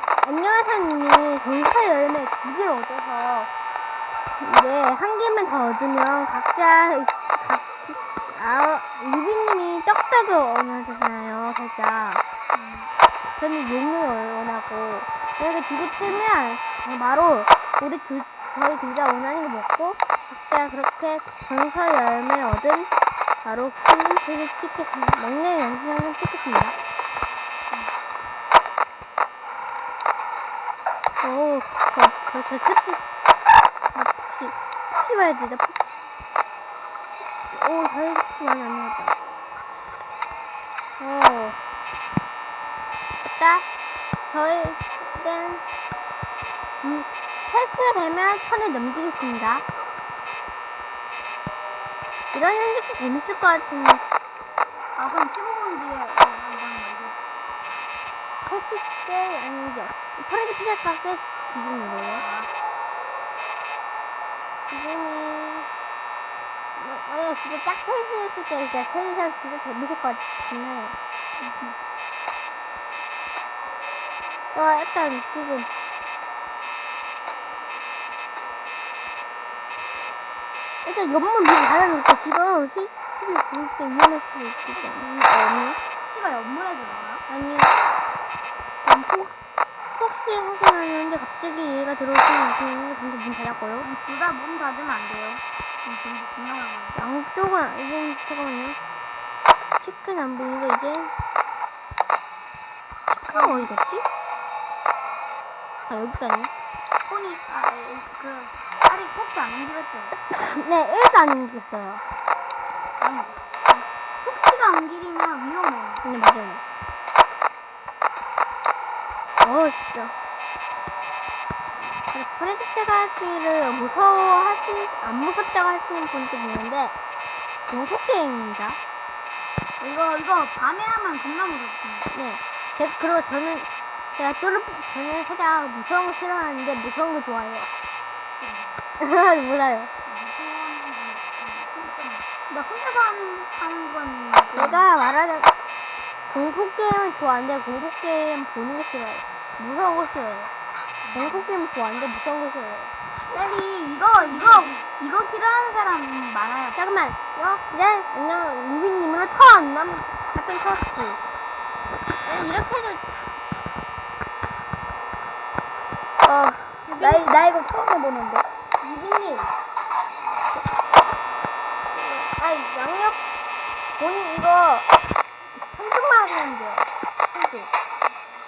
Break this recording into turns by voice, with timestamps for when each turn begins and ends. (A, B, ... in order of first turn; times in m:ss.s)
0:00.2-0:03.5 A
0:04.4-0:12.2 A
0:12.5-0:12.9 B
0:13.4-0:22.9 A
0:23.4-0:26.8 A
0:31.2-0:33.0 A
0:33.9-0:35.8 A
0:37.2-0:39.2 A
0:41.0-0:41.6 A
0:43.4-0:43.6 A
0:44.3-0:45.6 A
0:46.8-0:49.6 A
0:52.3-0:54.0 A
0:55.0-0:57.2 B
0:58.4-1:02.2 A
1:02.2-1:02.5 B
1:04.7-1:05.7 A
1:06.8-1:11.0 A
1:11.4-1:11.8 B
1:14.5-1:15.7 A
1:20.8-1:25.8 A
1:26.0-1:27.2 B
1:27.3-1:27.7 A
1:28.8-1:29.3 A
1:29.9-1:33.9 A
1:33.8-1:37.0 B
1:36.9-1:38.8 A
1:39.8-1:41.1 A
1:43.1-1:44.0 A
1:43.3-1:43.7 B
1:45.9-1:46.5 A
1:47.1-1:50.2 B
1:50.3-1:52.0 A
1:53.0-1:56.0 B
1:56.0-1:56.6 A
1:59.4-2:00.1 A
2:02.1-2:06.9 A
2:07.7-2:08.8 A
2:09.8-2:12.1 B
2:12.1-2:17.7 A
2:18.4-2:18.8 B
2:19.0-2:19.9 A
2:20.0-2:24.9 B
2:24.6-2:25.5 A
2:26.3-2:30.5 A
2:31.0-2:31.5 B
2:31.1-2:32.9 A
2:33.3-2:36.8 B
2:34.1-2:34.7 A
2:36.7-2:41.2 A
2:42.2-2:43.0 A
2:46.2-2:48.5 B
2:46.9-2:47.3 A
2:48.8-2:49.5 A
2:51.9-2:53.2 A
2:54.0-2:54.9 A
2:55.7-2:56.9 A
2:57.3-2:57.7 B